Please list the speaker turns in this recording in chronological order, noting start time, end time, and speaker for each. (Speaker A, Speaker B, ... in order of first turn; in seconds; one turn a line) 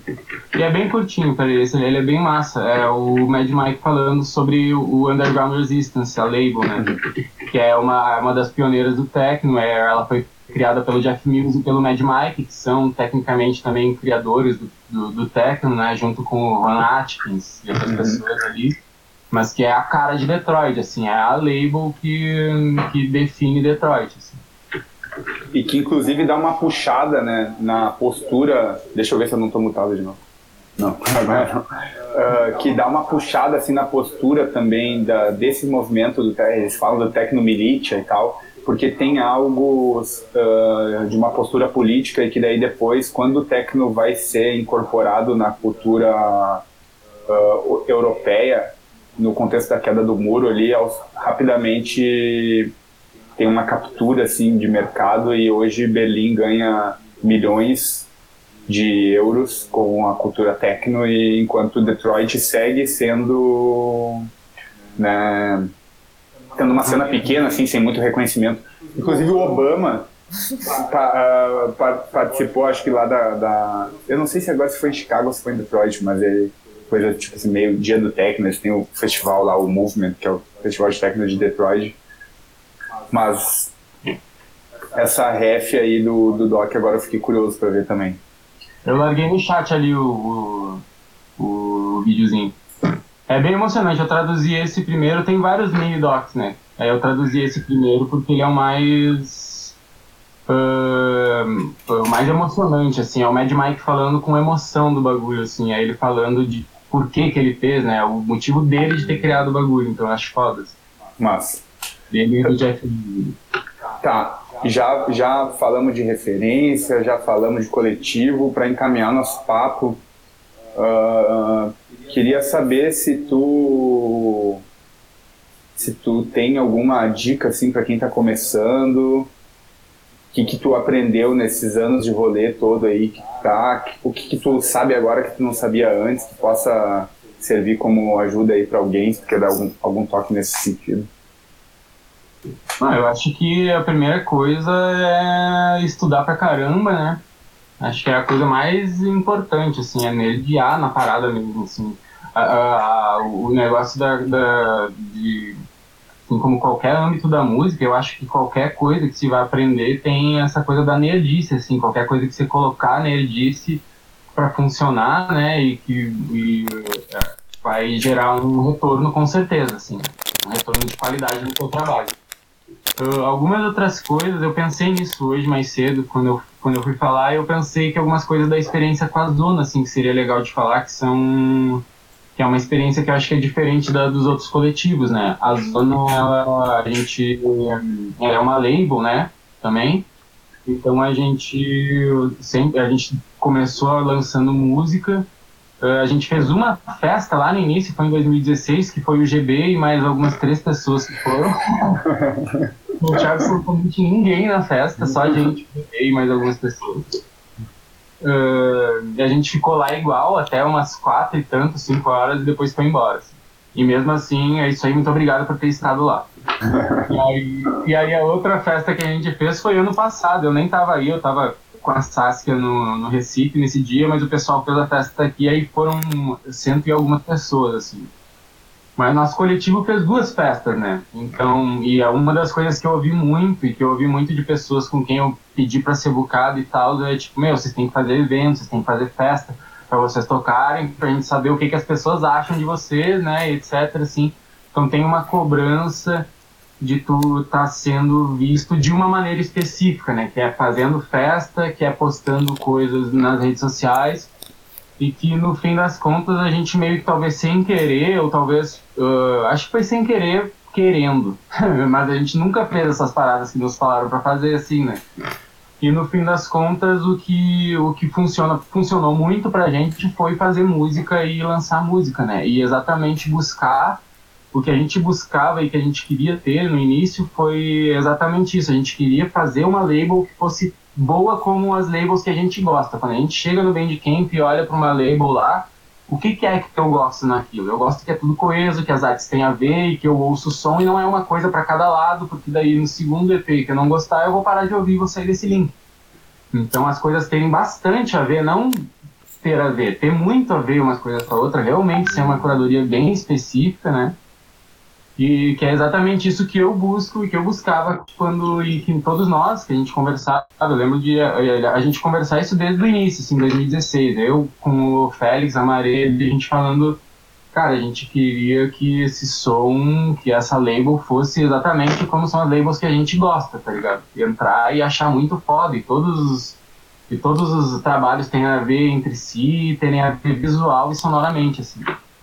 Speaker A: 0.5-18.8
Speaker B: 17.9-18.2
Speaker A: 19.3-24.4
Speaker B: 25.5-30.2
Speaker B: 30.8-46.6
Speaker B: 47.3-52.7
Speaker B: 53.4-58.1
Speaker B: 58.7-64.3
Speaker B: 65.0-65.7
Speaker B: 66.6-70.1
Speaker B: 70.7-82.0
Speaker B: 83.1-83.7
Speaker B: 84.9-88.2
Speaker A: 88.8-90.8
Speaker A: 91.4-92.6
Speaker A: 93.3-99.8
Speaker A: 100.5-110.8
Speaker B: 111.2-111.6
Speaker A: 112.1-113.4
Speaker B: 114.0-120.0
Speaker B: 120.7-124.6
Speaker B: 125.8-129.3
Speaker B: 130.3-141.1
Speaker A: 142.8-147.2
Speaker A: 147.8-155.6
Speaker A: 156.3-163.8
Speaker A: 164.3-172.2
Speaker A: 173.0-181.8
Speaker A: 182.4-190.1
Speaker A: 190.7-195.3
Speaker A: 195.8-202.1
Speaker B: 202.1-202.7
Speaker A: 203.0-207.2
Speaker B: 205.1-205.3
Speaker A: 208.2-216.3
Speaker B: 216.7-217.1
Speaker A: 217.1-228.1
Speaker A: 229.0-246.3
Speaker A: 246.8-254.3
Speaker A: 255.0-265.0
Speaker A: 265.8-274.0
Speaker A: 274.5-295.8
Speaker A: 296.5-304.1
Speaker A: 305.2-317.0
Speaker A: 317.5-331.9